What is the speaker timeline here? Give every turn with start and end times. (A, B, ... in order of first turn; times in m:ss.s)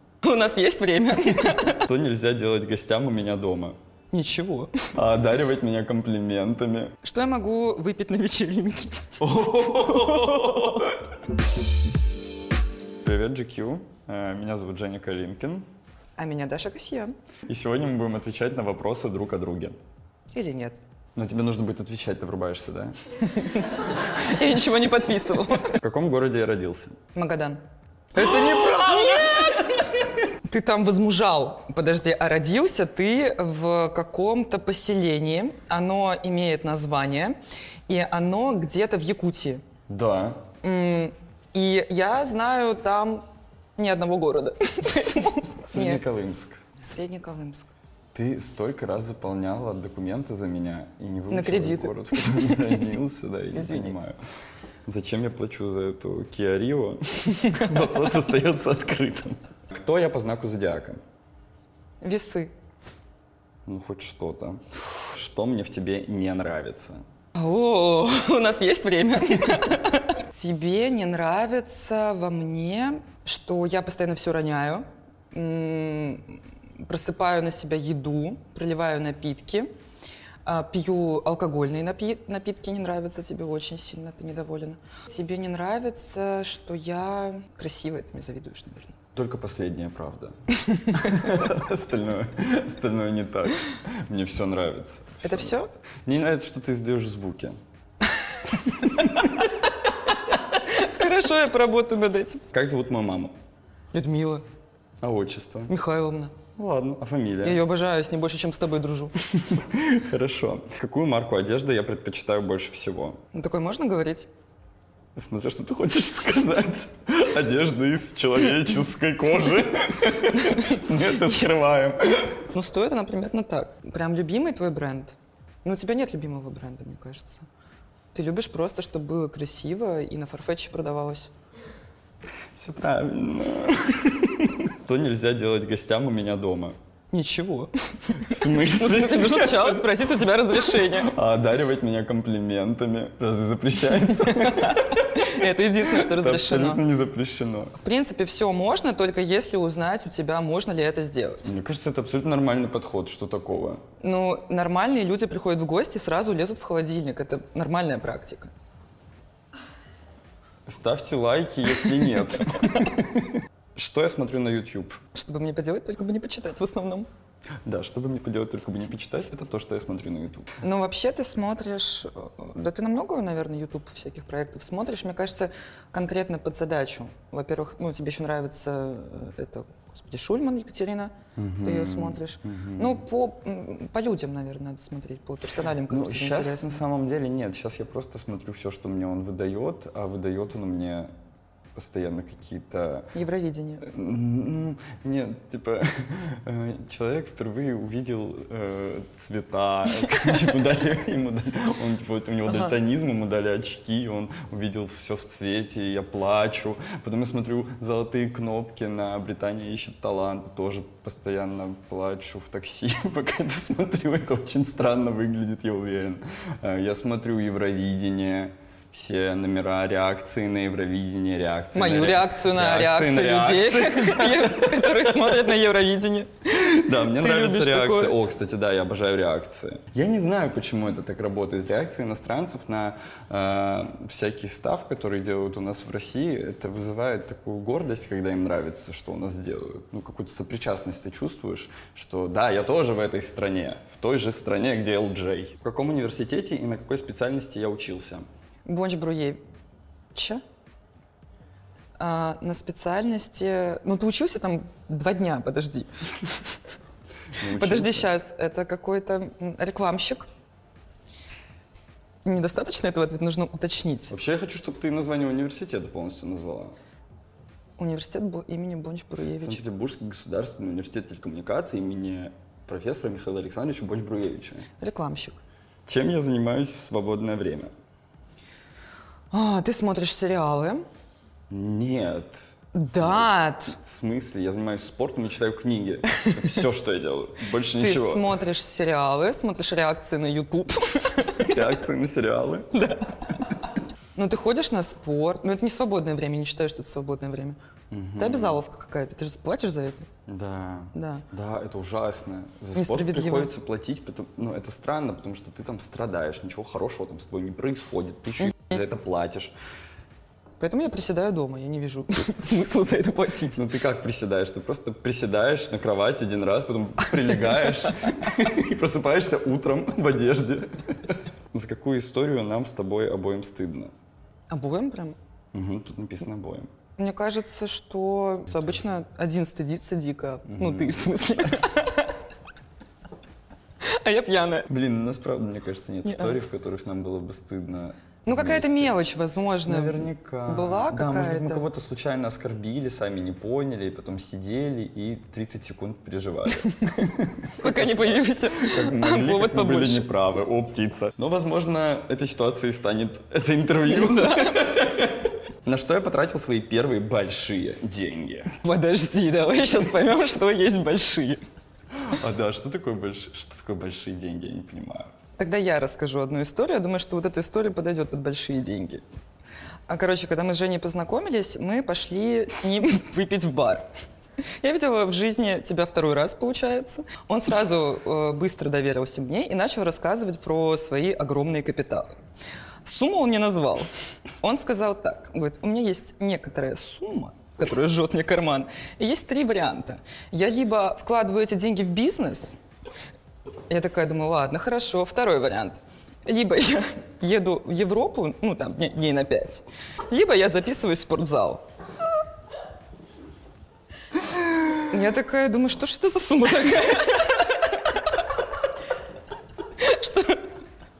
0:00.2-0:01.8 A
0:01.7-0:03.8 B
0:04.1-0:04.9 A
0:04.9-0:06.9 B
0:07.0-0:09.2 A
0:09.2-0:10.9 B
0:09.8-0:10.8 A
0:13.0-0:15.6 B
0:16.2-0:17.1 A
0:17.5-0:19.8 B
0:20.3-0:20.8 A
0:21.2-0:23.0 B
0:23.2-0:25.8 A
0:25.7-0:27.0 B
0:27.1-0:27.6 A
0:28.1-0:29.6 B
0:28.1-0:37.3 A
0:37.9-0:39.6 A
0:39.9-0:40.5 B
0:40.5-0:43.2 A
0:43.8-0:46.0 A
0:45.7-0:46.6 B
0:46.8-0:47.7 A
0:48.1-0:54.1 B
0:51.3-0:52.9 A
0:53.5-0:54.0 A
0:54.8-1:01.0 B
0:57.4-0:58.0 A
1:02.0-1:02.5 A
1:03.6-1:04.6 B
1:05.1-1:07.0 B
1:07.3-1:19.7 A
1:20.4-1:29.0 A
1:29.1-1:30.3 B
1:30.6-1:31.2 A
1:30.9-1:37.6 B
1:35.2-1:35.7 A
1:38.3-1:42.4 A
1:42.5-1:43.3 B
1:43.9-1:44.4 A
1:45.0-1:45.7 B
1:45.7-1:46.4 A
1:46.5-1:47.6 B
1:47.4-1:49.1 A
1:49.4-1:53.2 B
1:53.3-1:54.3 A
1:55.1-2:02.4 B
2:00.3-2:00.8 A
2:02.5-2:07.5 A
2:08.1-2:11.3 A
2:12.5-2:16.7 B
2:17.1-2:21.2 A
2:18.2-2:20.0 B
2:20.5-2:27.7 B
2:23.8-2:26.8 A
2:27.8-2:31.5 A
2:31.4-2:33.8 B
2:34.0-2:38.5 A
2:40.6-2:45.0 B
2:41.8-2:42.8 A
2:45.1-2:47.1 A
2:47.6-2:50.5 B
2:50.6-3:06.8 A
3:01.4-3:03.0 B
3:05.9-3:11.1 B
3:11.7-3:13.1 B
3:13.1-3:13.9 A
3:13.8-3:45.4 B
3:22.4-3:22.7 A
3:41.7-3:48.2 A
3:46.5-4:08.2 B
4:08.6-4:09.4 A
4:10.1-4:10.4 A
4:12.0-4:16.6 A
4:17.3-4:18.1 B
4:17.4-4:20.3 A
4:22.2-4:24.1 A
4:24.1-4:26.8 B
4:27.8-4:29.6 A
4:29.4-4:34.7 B
4:34.8-4:35.4 A
4:35.8-4:37.7 B
4:39.3-4:40.8 A
4:41.5-4:48.4 B
4:42.7-4:43.8 A
4:46.1-4:46.6 A
4:47.7-4:51.7 A
4:51.4-4:52.7 B
4:52.7-4:53.5 A
4:54.1-4:57.6 A
4:57.9-4:58.6 B
4:58.2-5:00.1 A
5:00.3-5:09.5 B
5:00.9-5:01.2 A
5:02.7-5:03.5 A
5:10.6-5:13.6 A
5:13.5-5:23.9 B
5:17.2-5:18.1 A
5:24.5-5:25.2 A
5:25.5-5:26.7 B
5:27.0-5:32.2 A
5:30.4-5:31.3 B
5:33.8-5:34.7 A
5:34.7-5:39.0 B
5:36.0-5:36.4 A
5:38.2-5:41.7 A
5:39.6-5:58.6 B
5:47.5-5:50.1 A
5:53.8-5:54.7 A
5:58.6-6:01.4 A
6:01.9-6:05.1 B
6:05.4-6:09.0 A
6:09.9-6:13.8 A
6:14.6-6:22.1 A
6:22.8-6:23.9 A
6:24.4-6:32.6 A
6:33.7-6:41.6 A
6:44.8-6:48.0 A
6:49.8-6:50.4 A